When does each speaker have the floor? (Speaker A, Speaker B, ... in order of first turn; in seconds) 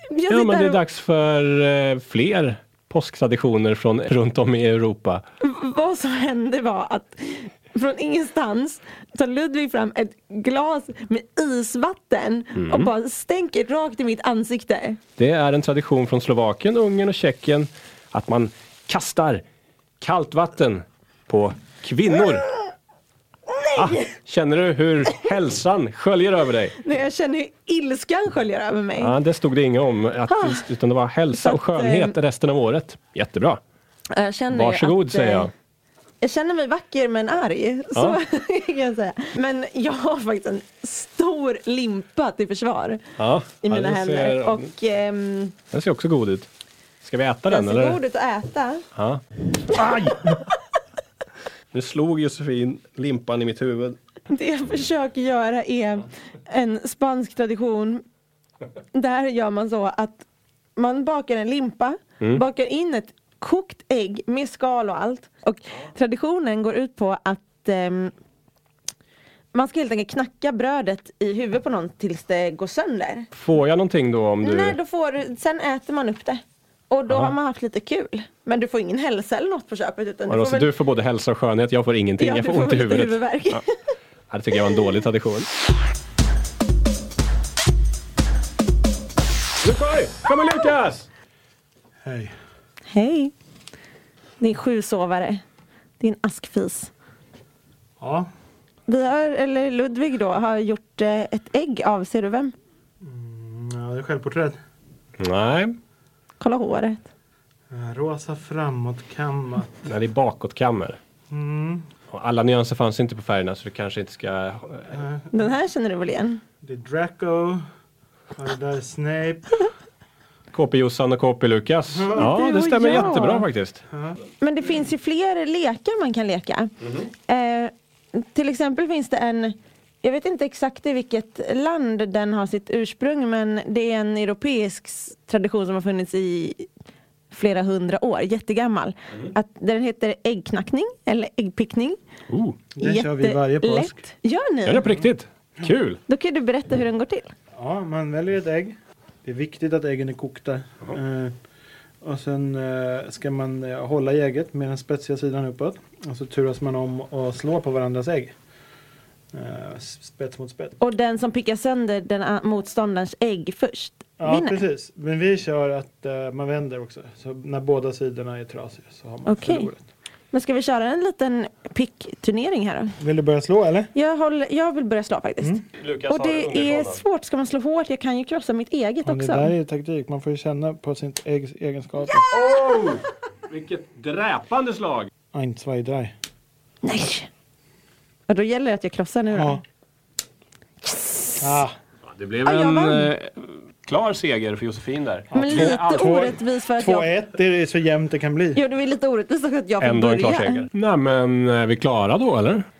Speaker A: 0.1-0.8, 5.4-15.0, 23.6-24.1, 26.8-29.1, 30.3-30.6, 31.3-32.1, 34.1-35.5, 36.2-45.5, 47.5-48.9, 54.3-58.0, 58.9-60.2, 60.8-68.1, 69.5-73.3, 74.4-80.7, 82.2-83.8, 92.9-93.3, 94.4-95.4, 96.0-96.9, 98.9-102.5, 106.4-107.1, 115.3-116.4, 122.1-123.4, 124.4-136.7, 137.3-142.0, 142.8-144.9, 146.1-147.3, 160.8-164.6, 169.2-169.7, 170.3-172.9, 173.9-179.5, 186.8-187.3, 188.3-189.6, 190.8-191.3, 192.4-193.1, 195.3-197.1, 198.6-200.7
Speaker B: 0.3-5.2, 12.5-12.9, 15.2-19.4, 20.0-22.5, 23.7-26.8, 29.0-33.6, 34.5-35.5, 43.2-44.7, 45.7-46.5, 47.0-48.0, 48.9-50.4, 51.7-54.0, 73.3-74.8, 77.1-77.3, 80.3-83.6, 84.3-85.5, 89.6-91.1, 105.2-105.8, 109.8-111.0, 112.1-114.9, 120.5-123.8, 142.3-142.6, 144.7-146.0, 175.8-177.0, 182.3-185.1, 192.1-196.1, 199.8-202.7
Speaker C: 92.0-92.3, 98.0-98.3, 103.0-104.6, 107.7-109.8, 111.3-111.8, 114.9-115.4, 116.6-117.6, 118.3-119.7, 121.9-122.3, 123.9-124.2, 142.7-144.0, 147.6-151.3, 152.0-158.3, 159.3-160.8, 164.2-169.8, 173.0-173.9, 179.0-182.3, 185.3-186.1, 189.3-189.6, 191.4-191.7, 195.3-198.6